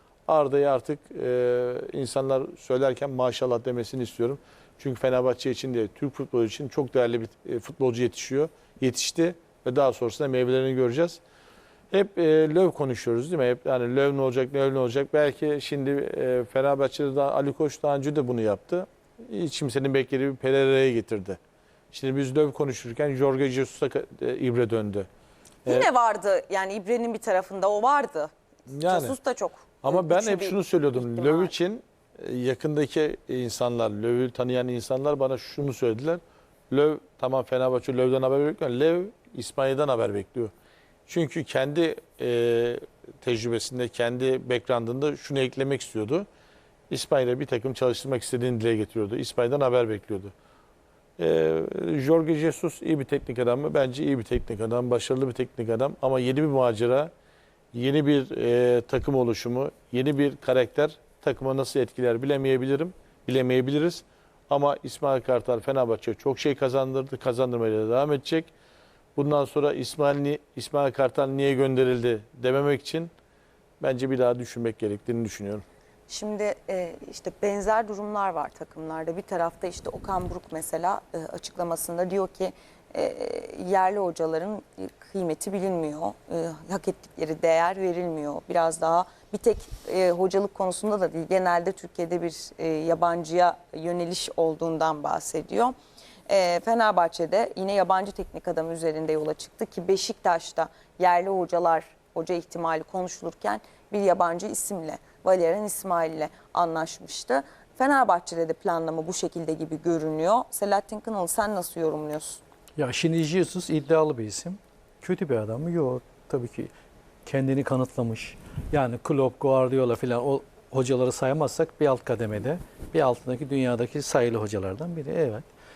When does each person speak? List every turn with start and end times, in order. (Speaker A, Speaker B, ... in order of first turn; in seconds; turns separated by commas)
Speaker A: 0.3-11.2, Speaker A: 11.9-21.4, Speaker A: 21.9-25.1, Speaker B: 25.7-28.3, Speaker A: 28.7-29.1, Speaker B: 28.8-31.5, Speaker A: 29.8-40.5, Speaker A: 41.1-46.3, Speaker A: 46.9-50.3, Speaker A: 51.2-57.1, Speaker A: 57.7-68.5, Speaker A: 69.2-73.1, Speaker A: 73.8-75.7, Speaker B: 76.1-95.7, Speaker B: 96.3-112.4, Speaker C: 112.8-116.7, Speaker C: 117.2-125.5